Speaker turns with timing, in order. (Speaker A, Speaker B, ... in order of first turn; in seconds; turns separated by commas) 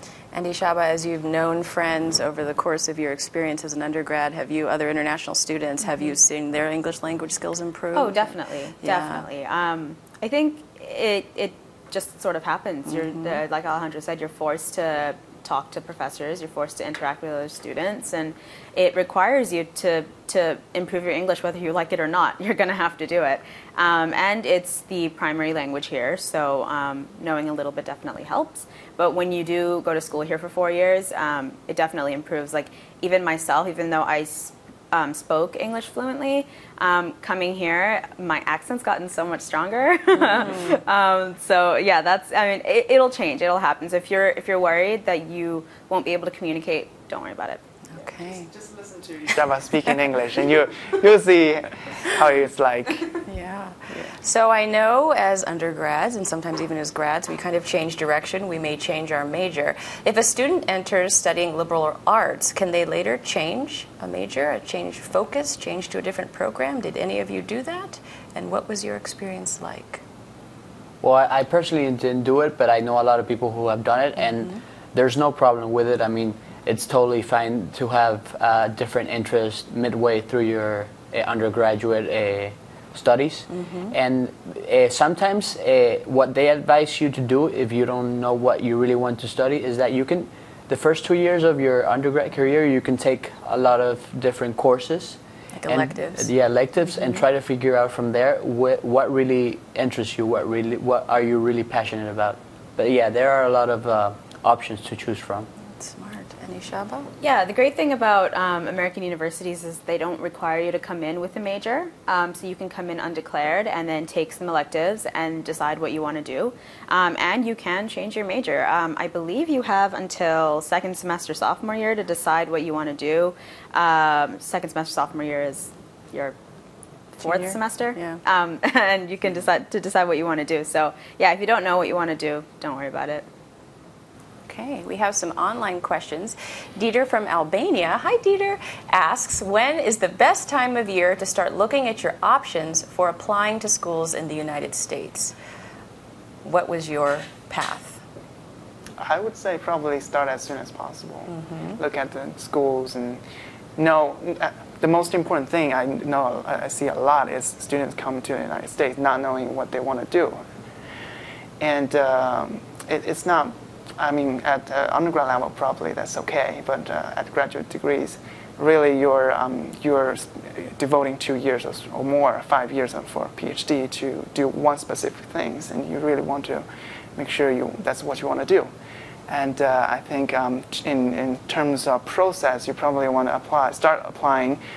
Speaker A: 0.3-9.2, Speaker B: 7.9-47.6, Speaker A: 12.9-13.4, Speaker A: 40.2-40.8, Speaker A: 47.9-48.5, Speaker C: 48.0-53.1, Speaker A: 53.2-70.0, Speaker D: 71.0-105.5, Speaker A: 83.5-83.9, Speaker A: 95.5-96.3, Speaker A: 105.7-107.1, Speaker B: 107.2-126.3, Speaker A: 127.2-128.2, Speaker B: 127.2-133.2, Speaker A: 134.4-145.3, Speaker A: 146.4-148.0, Speaker C: 149.0-153.2, Speaker A: 151.3-151.8, Speaker C: 153.8-160.4, Speaker C: 161.6-178.7, Speaker C: 179.3-184.6